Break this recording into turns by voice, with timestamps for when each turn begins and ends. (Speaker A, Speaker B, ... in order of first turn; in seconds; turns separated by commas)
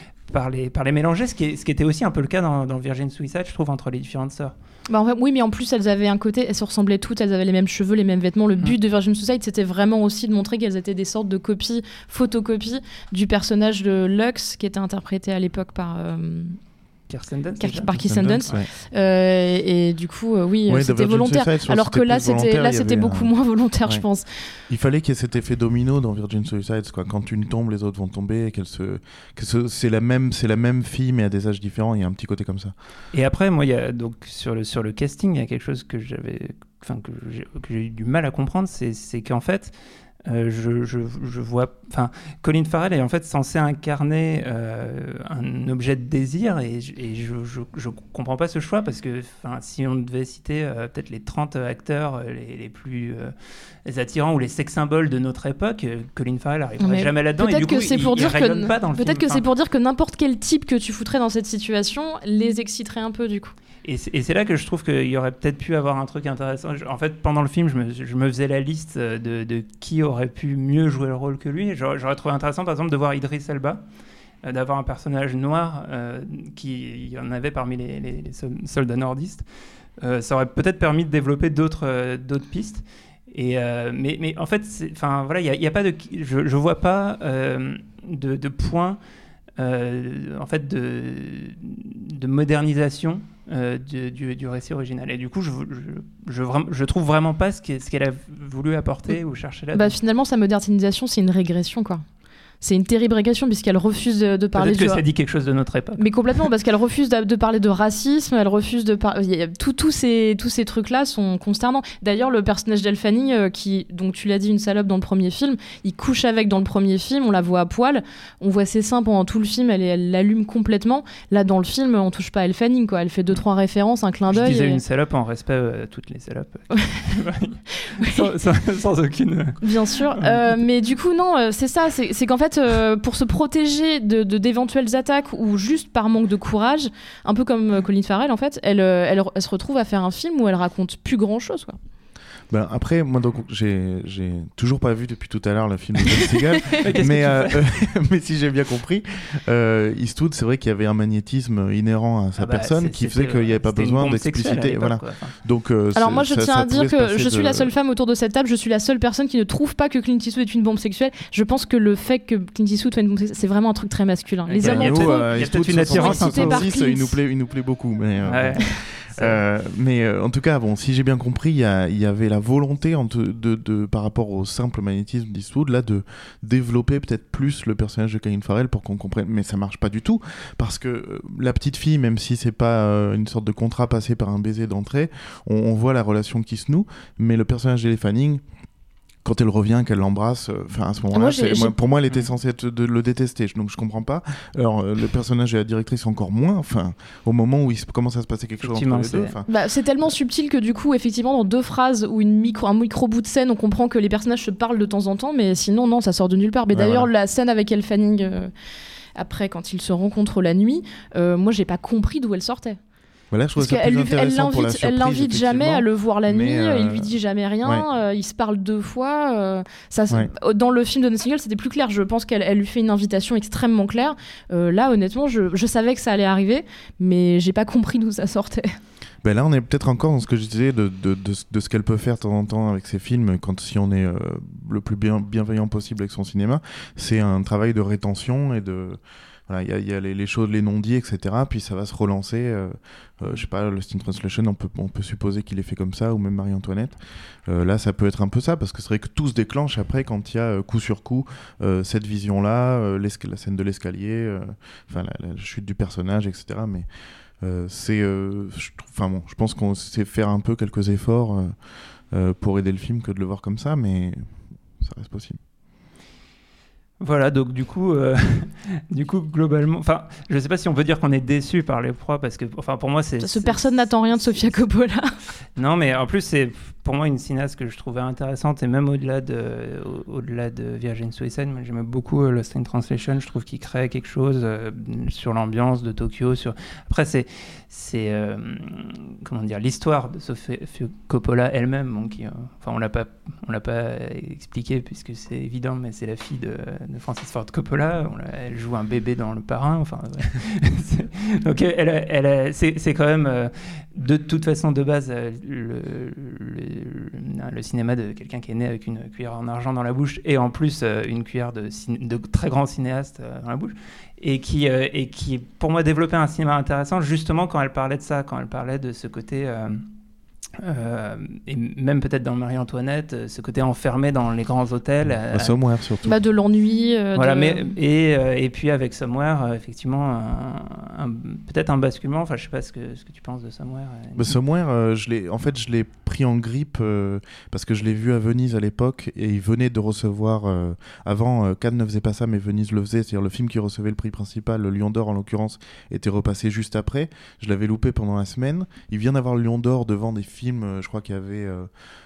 Speaker A: 0.3-4.5, Speaker B: 4.9-16.6, Speaker A: 17.1-17.9, Speaker B: 17.6-24.3, Speaker C: 17.9-18.7, Speaker C: 20.7-23.3, Speaker C: 24.7-32.7, Speaker A: 33.1-39.7, Speaker A: 40.2-53.3, Speaker A: 53.8-59.4, Speaker B: 56.8-63.5, Speaker A: 63.8-73.8, Speaker A: 74.4-79.4, Speaker A: 80.0-89.0, Speaker A: 89.6-100.0, Speaker B: 99.7-102.0, Speaker B: 102.6-105.0, Speaker A: 104.5-106.0, Speaker B: 106.0-124.8, Speaker A: 124.3-129.6, Speaker B: 128.0-128.2, Speaker B: 129.6-141.8, Speaker A: 130.1-130.5, Speaker C: 142.5-157.7, Speaker A: 146.8-147.6, Speaker A: 152.4-155.3, Speaker B: 155.9-167.1, Speaker A: 164.5-166.7, Speaker C: 164.6-188.4, Speaker A: 168.2-169.4, Speaker C: 189.2-199.5, Speaker B: 191.1-191.8, Speaker A: 198.6-199.3, Speaker B: 199.5-208.5, Speaker C: 206.7-207.1, Speaker B: 209.2-212.8, Speaker C: 213.3-217.1, Speaker B: 213.6-228.7, Speaker C: 229.2-256.9, Speaker C: 257.4-261.5, Speaker C: 262.1-265.4, Speaker A: 267.0-274.6, Speaker B: 273.2-275.1, Speaker A: 275.6-319.8, Speaker A: 320.6-325.6, Speaker C: 325.3-326.1, Speaker B: 326.0-327.7, Speaker A: 327.1-334.4, Speaker C: 334.1-351.7